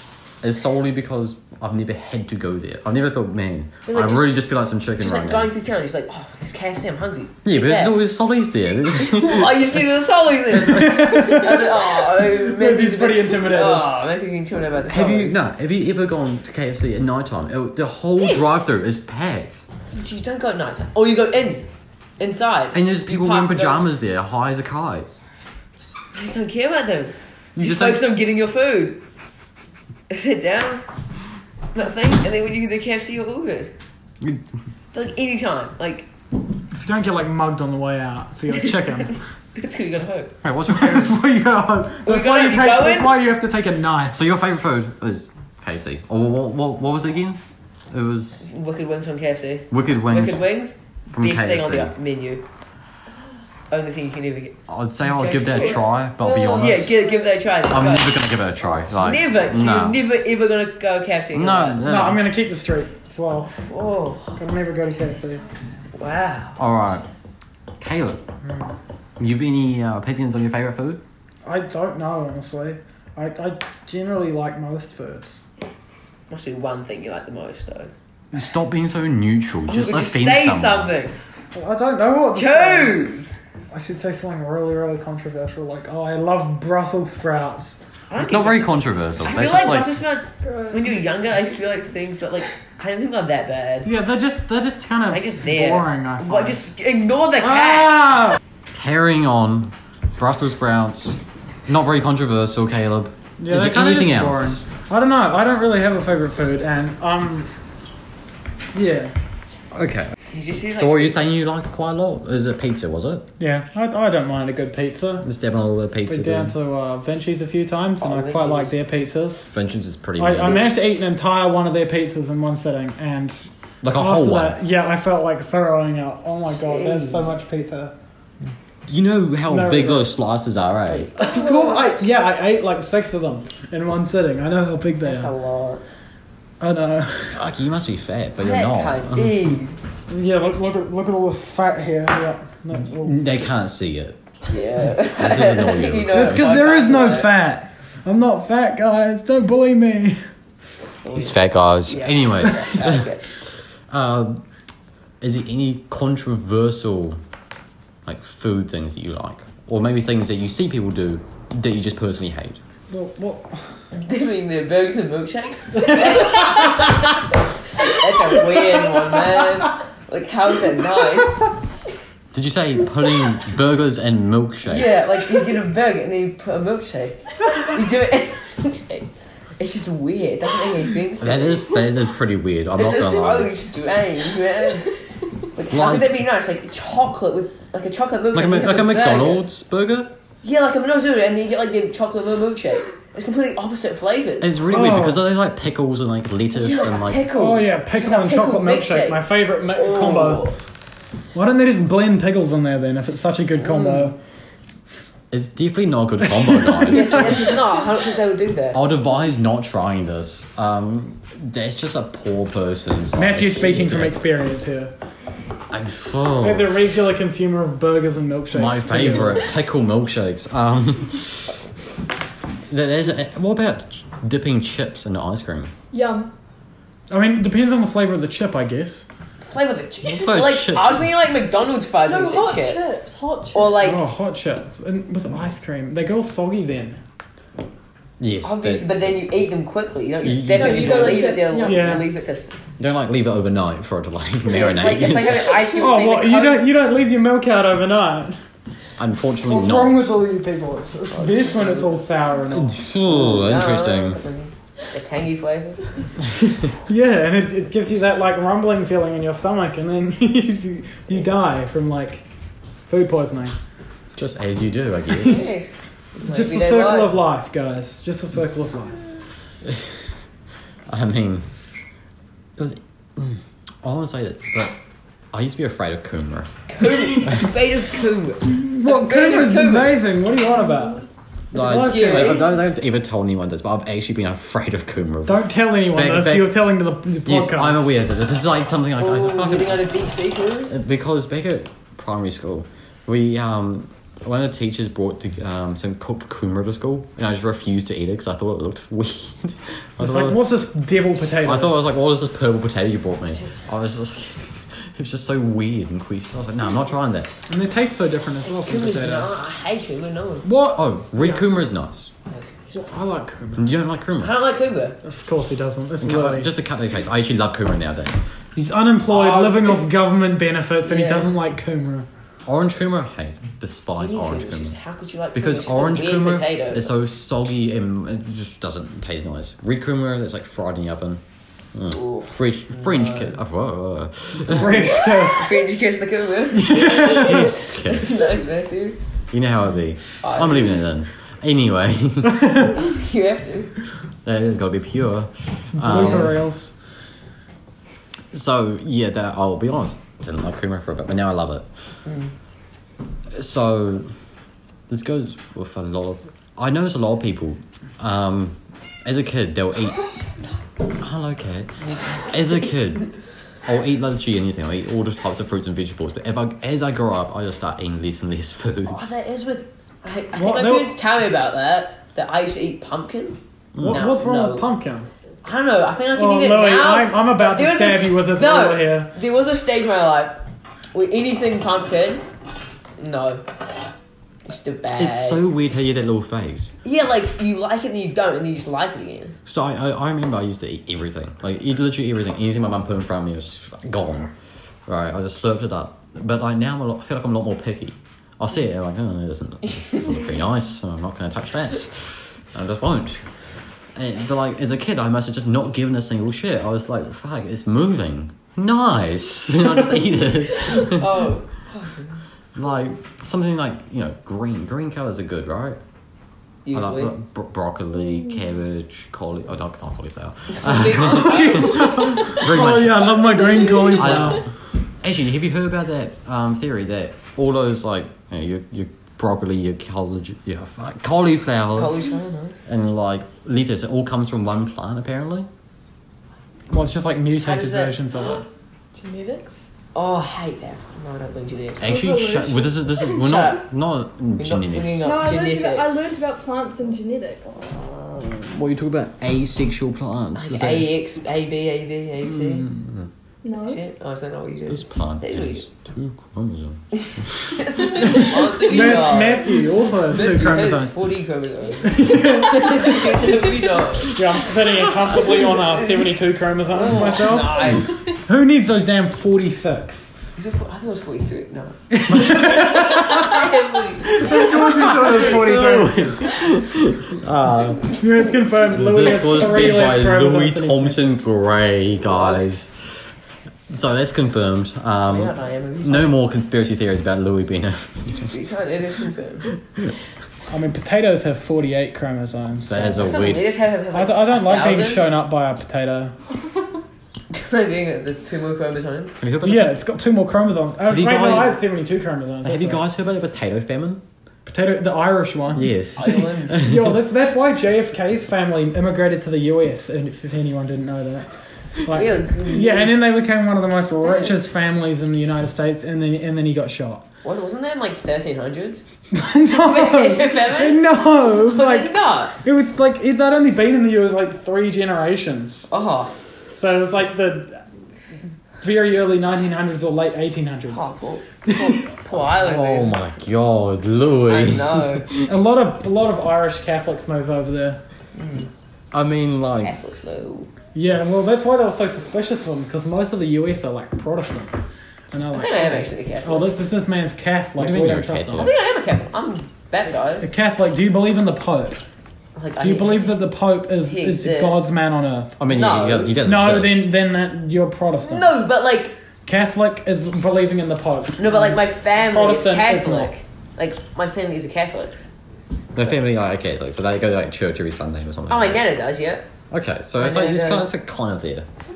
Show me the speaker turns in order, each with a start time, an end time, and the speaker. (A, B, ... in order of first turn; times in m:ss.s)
0:00.4-0:05.5 A
0:03.9-0:04.3 B
0:05.0-0:08.0 B
0:07.4-0:09.8 A
0:09.0-0:15.4 B
0:10.7-0:13.9 C
0:14.9-0:19.6 A
0:18.2-0:18.5 B
0:19.9-0:21.6 B
0:22.2-0:23.9 B
0:22.7-0:25.1 A
0:26.1-0:29.0 B
0:27.6-0:28.0 A
0:30.1-0:30.8 B
0:31.7-0:33.7 B
0:34.9-0:36.1 B
0:36.7-0:39.2 C
0:39.6-0:40.3 B
0:40.4-0:41.2 A
0:40.7-0:44.2 C
0:42.0-0:43.3 B
0:44.1-0:48.5 A
0:48.4-0:52.4 B
0:49.7-0:50.5 A
0:51.1-0:51.9 A
0:53.7-1:01.8 B
0:54.7-0:57.0 A
0:57.7-1:00.0 A
1:01.3-1:02.2 A
1:01.8-1:03.5 C
1:03.6-1:04.4 B
1:04.4-1:05.4 C
1:05.9-1:06.6 B
1:06.6-1:07.1 A
1:07.8-1:08.2 A
1:08.4-1:08.7 C
1:09.2-1:11.0 A
1:11.4-1:15.4 C
1:16.3-1:17.9 B
1:18.3-1:20.9 A
1:19.7-1:21.2 B
1:21.5-1:23.0 C
1:22.3-1:23.4 B
1:23.7-1:27.8 C
1:28.1-1:33.9 B
1:28.2-1:30.0 A
1:30.4-1:31.0 D
1:33.8-1:36.6 C
1:35.1-1:38.4 B
1:38.7-1:44.6 A
1:43.4-1:47.5 C
1:48.7-1:49.1 C
1:49.7-1:50.1 A
1:50.3-1:51.2 B
1:50.8-1:53.2 A
1:53.4-1:55.3 C
1:55.2-1:56.5 A
1:56.1-1:59.5 C
1:58.0-1:58.7 B
1:59.5-2:00.7 A
2:00.2-2:07.9 C
2:03.8-2:04.6 A
2:06.5-2:07.4 B
2:08.9-2:11.1 A
2:09.5-2:10.1 C
2:10.9-2:12.1 B
2:11.1-2:15.3 C
2:15.0-2:15.8 B
2:16.6-2:17.4 C
2:17.3-2:19.3 A
2:18.4-2:19.8 B
2:20.1-2:23.2 C
2:23.0-2:24.2 A
2:24.5-2:27.3 B
2:25.2-2:26.6 A
2:26.1-2:30.2 C
2:31.0-2:33.2 B
2:31.1-2:33.1 A
2:33.9-2:34.4 A
2:35.2-2:37.2 A
2:38.0-2:42.6 A
2:42.9-2:43.7 C
2:43.9-2:51.5 B
2:52.3-2:55.0 A
2:54.6-3:01.7 B
3:01.2-3:03.5 A
3:02.8-3:09.4 B
3:05.7-3:06.2 A
3:08.3-3:10.1 A
3:10.4-3:14.6 B
3:14.4-3:17.2 A
3:14.7-3:15.2 C
3:16.5-3:20.6 B
3:17.3-3:20.5 C
3:21.3-3:24.2 C
3:25.3-3:27.6 A
3:26.4-3:27.2 C
3:26.8-3:28.8 B
3:28.7-3:34.2 A
3:33.1-3:34.9 C
3:35.7-3:36.8 A
3:36.4-3:39.4 C
3:38.5-3:41.6 A
3:42.6-3:45.7 A
3:45.9-3:46.3 D
3:47.1-3:49.1 C
3:49.5-3:52.8 B
3:50.0-3:51.0 A
3:52.0-3:53.8 D
3:53.5-3:54.0 B
3:53.8-3:57.0 C
3:58.2-3:58.9 A
3:58.4-4:02.5 B
4:00.2-4:01.3 A
4:00.4-4:02.0 D
4:01.6-4:02.1 C
4:02.8-4:05.6 A
4:04.5-4:06.7 B
4:05.7-4:08.3 C
4:09.0-4:10.0 A
4:09.4-4:12.8 C
4:11.1-4:12.0 B
4:12.5-4:14.2 A
4:13.1-4:15.9 B
4:16.8-4:22.2 C
4:22.9-4:23.5 C
4:24.2-4:25.5 A
4:25.1-4:25.5 C
4:25.2-4:27.2 B
4:26.2-4:29.0 C
4:30.9-4:31.4 A
4:32.6-4:34.7 A
4:35.3-4:36.5 A
4:36.7-4:40.0 B
4:38.5-4:42.4 C
4:41.5-4:46.5 A
4:41.5-4:42.6 B
4:45.2-4:47.9 C
4:47.2-4:49.9 A
4:49.0-4:50.7 B
4:50.7-5:00.4 A
5:00.0-5:01.8 C
5:01.4-5:07.3 A
5:07.5-5:09.3 C
5:08.4-5:10.5 B
5:10.4-5:11.4 C
5:10.7-5:12.1 A
5:12.3-5:12.9 B
5:12.7-5:13.8 C
5:13.6-5:14.3 A
5:14.2-5:15.0 B
5:15.0-5:16.5 C
5:16.0-5:18.2 A
5:18.6-5:22.1 C
5:19.1-5:19.9 B
5:20.8-5:21.3 B
5:22.4-5:24.8 A
5:24.0-5:26.9 B
5:25.3-5:31.2 A
5:31.7-5:35.0 A
5:31.9-5:33.4 B
5:34.4-5:35.5 C
5:34.6-5:39.0 B
5:36.6-5:37.4 C
5:36.8-5:38.4 A
5:39.3-5:42.6 A
5:40.2-5:40.8 B
5:42.6-5:43.7 B
5:44.2-5:46.4 A
5:45.7-5:46.7 C
5:45.9-5:46.3 B
5:48.3-5:51.6 A
5:52.0-5:52.3 B
5:53.4-5:54.1 A
5:54.9-6:00.1 A
6:01.0-6:01.7 A
6:01.8-6:02.6 B
6:02.2-6:03.1 A
6:03.6-6:09.1 A
6:08.8-6:14.7 B
6:10.4-6:11.0 C
6:13.7-6:14.0 A
6:13.8-6:15.1 C
6:15.4-6:20.4 B
6:16.1-6:19.1 C
6:20.9-6:22.2 B
6:23.0-6:23.4 B
6:24.4-6:25.4 B
6:25.0-6:26.7 A
6:26.8-6:29.4 B
6:29.4-6:34.3 A
6:34.9-6:43.2 A
6:39.8-6:40.2 B
6:43.9-6:51.3 A
6:50.7-6:52.2 B
6:52.6-6:55.8 A
6:56.6-6:57.1 B
6:56.7-7:04.5 A
7:00.5-7:02.4 B
7:01.1-7:04.4 C
7:03.0-7:04.1 B
7:03.4-7:03.7 D
7:05.0-7:12.0 A
7:11.7-7:12.6 B
7:12.6-7:15.5 A
7:16.7-7:18.4 C
7:17.4-7:18.4 B
7:19.0-7:19.6 D
7:19.9-7:22.0 B
7:21.8-7:25.3 A
7:21.8-7:22.8 D
7:23.2-7:23.6 B
7:24.4-7:26.0 B
7:25.0-7:27.5 D
7:27.6-7:30.9 A
7:30.3-7:32.7 B
7:32.2-7:33.1 A
7:33.4-7:33.8 D
7:33.6-7:35.6 B
7:34.7-7:38.0 A
7:37.0-7:39.5 B
7:38.0-7:41.0 C
7:39.1-7:39.7 D
7:40.1-7:44.1 B
7:41.8-7:43.4 C
7:44.1-7:50.2 C
7:46.7-7:48.0 B
7:50.4-7:56.3 B
7:51.9-7:52.7 C
7:52.3-7:53.3 A
7:54.1-7:57.9 A
7:54.2-7:56.2 C
7:57.9-8:01.0 C
7:58.7-8:03.1 A
8:02.0-8:02.4 B
8:03.7-8:08.3 A
8:05.1-8:06.2 B
8:08.2-8:09.5 B
8:10.5-8:13.4 C
8:12.6-8:13.5 A
8:13.0-8:15.0 B
8:13.9-8:16.2 C
8:17.3-8:19.1 B
8:19.2-8:19.7 A
8:19.4-8:22.8 C
8:20.8-8:21.6 A
8:22.4-8:24.0 A
8:24.4-8:31.3 C
8:25.5-8:27.0 A
8:26.0-8:26.7 B
8:31.8-8:37.0 C
8:31.9-8:33.0 B
8:34.0-8:34.3 B
8:37.2-8:38.8 B
8:39.1-8:45.7 C
8:39.5-8:42.4 B
8:45.7-8:46.1 B
8:46.5-8:47.6 C
8:48.6-8:50.9 C
8:50.7-8:53.0 B
8:51.5-8:51.9 C
8:52.4-8:55.3 A
8:54.3-8:55.0 B
8:55.2-8:57.8 C
8:58.2-8:58.5 B
8:58.9-8:59.7 A
8:59.6-9:00.5 B
9:00.7-9:04.5 C
9:05.1-9:08.5 C
9:05.3-9:06.5 B
9:07.6-9:08.5 A
9:08.4-9:10.3 B
9:10.2-9:11.8 C
9:12.4-9:13.2 B
9:12.6-9:15.4 C
9:13.8-9:14.8 B
9:15.4-9:16.9 A
9:15.5-9:16.2 B
9:16.2-9:18.4 C
9:18.0-9:18.9 B
9:19.2-9:23.1 C
9:21.2-9:25.1 B
9:25.7-9:28.6 A
9:28.3-9:29.2 B
9:29.5-9:31.5 A
9:30.0-9:30.7 B